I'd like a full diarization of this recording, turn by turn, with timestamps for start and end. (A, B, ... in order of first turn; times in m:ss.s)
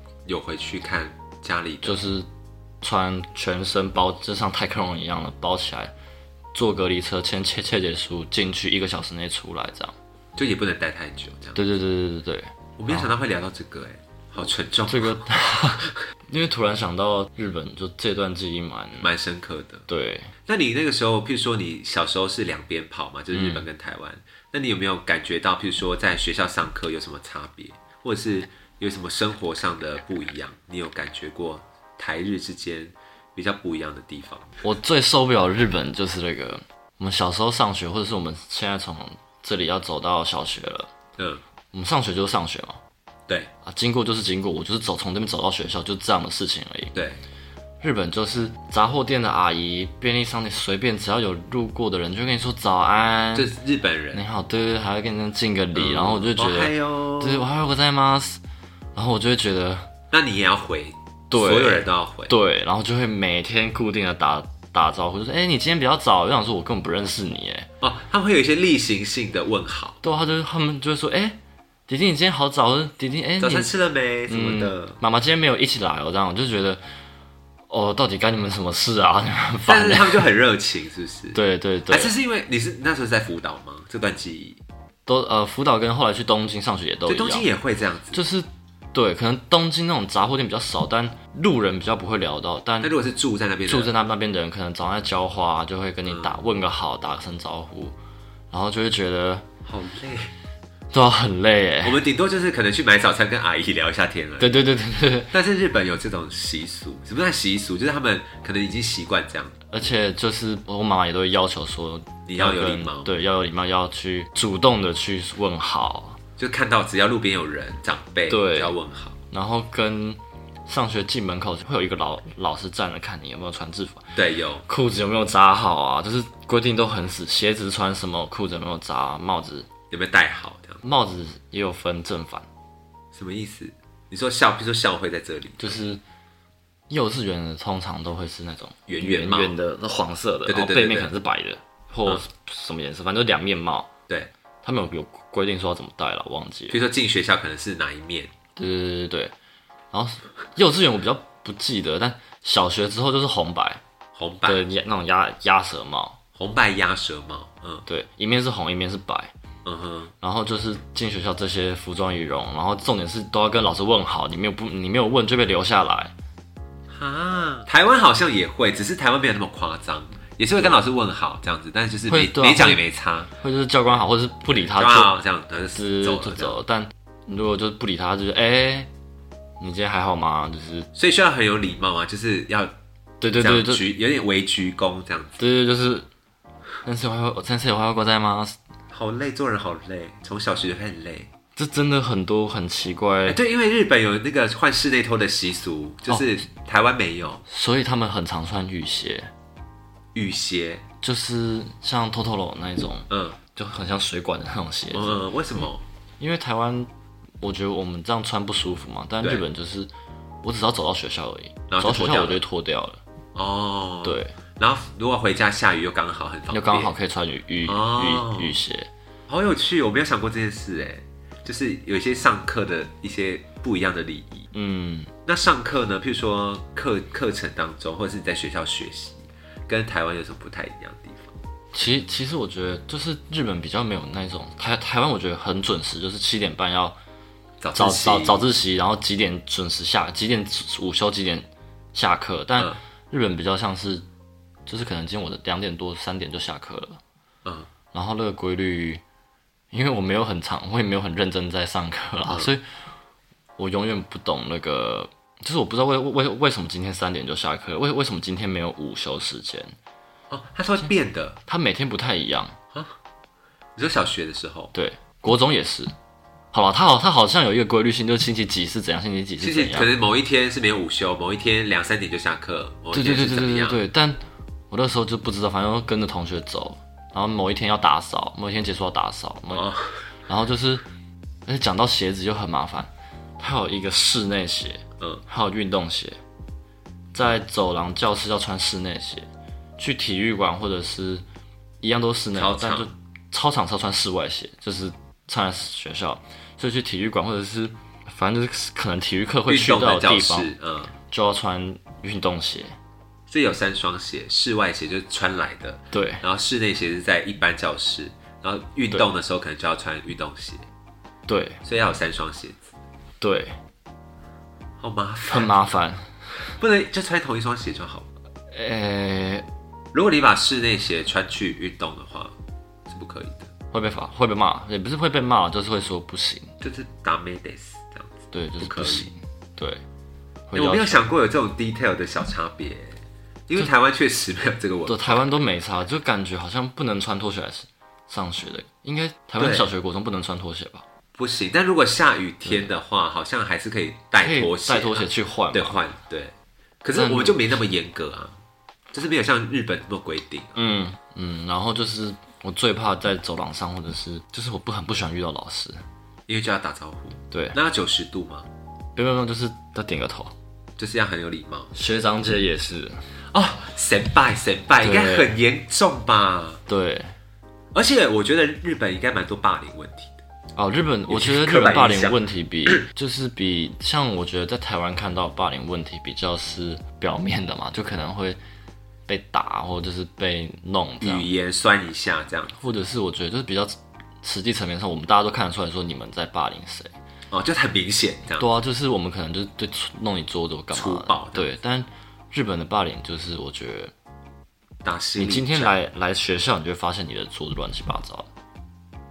0:00.2-0:02.0 A
0:01.8-0:02.3 B
0:02.8-0:05.9 B
0:06.5-0:09.9 B
0:10.4-0:11.6 A
0:11.5-0:13.1 B
0:12.8-0:15.9 A
0:14.9-0:19.1 B
0:19.0-0:19.8 A
0:19.9-0:20.3 B
0:20.4-0:34.6 A
0:23.3-0:23.6 B
0:34.6-0:40.9 B
0:41.7-0:42.8 B
0:43.6-0:47.0 B
0:46.9-0:47.2 A
0:47.8-0:53.5 B
0:53.3-0:54.2 A
0:54.1-0:58.4 B
0:55.7-0:57.5 A
0:58.9-0:59.9 B
1:00.1-1:02.3 A
1:01.3-1:07.7 B
1:07.8-1:10.0 A
1:10.0-1:13.7 B
1:13.4-1:15.0 A
1:14.3-1:16.8 B
1:17.7-1:20.3 B
1:19.6-1:24.6 A
1:21.3-1:22.1 B
1:25.0-1:27.5 B
1:27.1-1:28.2 A
1:28.1-1:32.9 B
1:32.8-1:33.9 A
1:33.6-1:38.0 B
1:36.0-1:36.4 A
1:38.5-1:39.4 B
1:39.6-1:40.3 A
1:40.9-1:42.0 B
1:41.8-1:44.6 A
1:44.4-1:45.3 B
1:45.3-1:49.6 A
1:49.7-1:56.2 B
1:52.2-1:53.1 A
1:56.4-1:59.2 A
1:58.3-1:58.7 B
1:59.3-2:09.7 B
2:04.2-2:04.6 A
2:09.9-2:10.8 A
2:10.8-2:12.4 B
2:13.1-2:15.8 A
2:15.6-2:16.0 B
2:16.9-2:23.9 B
2:18.9-2:19.6 A
2:20.4-2:21.1 A
2:24.6-2:26.8 B
2:26.7-2:28.3 A
2:28.6-2:29.3 B
2:29.9-2:33.8 B
2:34.1-2:34.6 A
2:34.4-2:36.2 B
2:36.3-2:37.8 A
2:37.8-2:39.3 B
2:39.6-2:40.1 A
2:40.2-2:46.1 B
2:46.9-2:53.3 A
2:52.1-2:52.8 B
2:53.4-2:55.2 B
2:54.5-2:56.6 A
2:55.7-2:58.9 B
2:59.6-3:00.9 B
3:00.9-3:02.7 A
3:03.2-3:03.9 B
3:03.4-3:05.4 A
3:05.4-3:06.1 B
3:06.8-3:08.6 B
3:08.9-3:11.3 A
3:11.6-3:13.4 B
3:13.2-3:17.4 A
3:17.5-3:19.3 B
3:20.1-3:20.8 A
3:21.0-3:25.2 B
3:23.1-3:23.4 A
3:24.9-3:25.8 A
3:26.2-3:26.9 B
3:27.4-3:29.9 B
3:30.4-3:33.0 B
3:31.7-3:32.4 A
3:33.3-3:36.9 A
3:34.0-3:34.3 B
3:36.5-3:38.9 B
3:37.6-3:38.6 A
3:39.3-3:44.5 A
3:44.5-3:45.1 B
3:45.2-3:51.3 A
3:51.7-3:57.0 B
3:57.6-3:58.4 A
3:57.7-4:04.0 B
4:04.7-4:07.0 B
4:07.9-4:09.0 B
4:09.7-4:12.6 B
4:13.6-4:19.8 B
4:20.3-4:21.4 A
4:21.5-4:22.6 B
4:23.8-4:24.7 A
4:24.7-4:25.9 B
4:26.5-4:29.9 B
4:29.4-4:33.8 A
4:32.9-4:39.7 B
4:39.5-4:40.0 A
4:40.3-4:40.8 B
4:41.4-4:46.2 B
4:47.1-4:49.3 B
4:49.8-4:51.2 B
4:51.8-5:00.5 B
4:52.3-4:52.9 A
4:59.5-5:00.9 A
5:01.1-5:02.7 B
5:03.3-5:10.6 A
5:05.9-5:06.2 B
5:11.3-5:11.6 B
5:11.6-5:12.7 A
5:13.2-5:13.6 B
5:14.8-5:15.6 A
5:15.3-5:16.2 B
5:16.5-5:18.1 A
5:18.5-5:19.4 B
5:19.9-5:22.3 A
5:22.9-5:23.5 A
5:23.7-5:26.5 B
5:26.6-5:29.1 A
5:28.3-5:29.8 B
5:30.5-5:31.0 B
5:30.5-5:35.3 A
5:34.9-5:40.8 B
5:39.4-5:39.7 A
5:41.1-5:48.4 A
5:42.4-5:42.7 B
5:44.2-5:45.8 B
5:46.9-5:47.6 B
5:48.9-5:50.6 A
5:50.6-5:55.8 B
5:56.3-5:58.5 A
5:57.3-5:57.6 B
5:59.0-6:00.3 B
6:00.8-6:01.7 A
6:01.7-6:03.0 B
6:03.3-6:06.6 A
6:04.8-6:05.4 B
6:06.7-6:07.2 B
6:07.7-6:10.2 A
6:10.6-6:18.4 B
6:11.1-6:12.8 A
6:19.1-6:21.3 B
6:21.0-6:22.7 A
6:22.6-6:26.9 B
6:27.3-6:28.5 A
6:28.4-6:33.9 B
6:30.7-6:31.5 A
6:34.8-6:35.8 A
6:35.2-6:38.3 B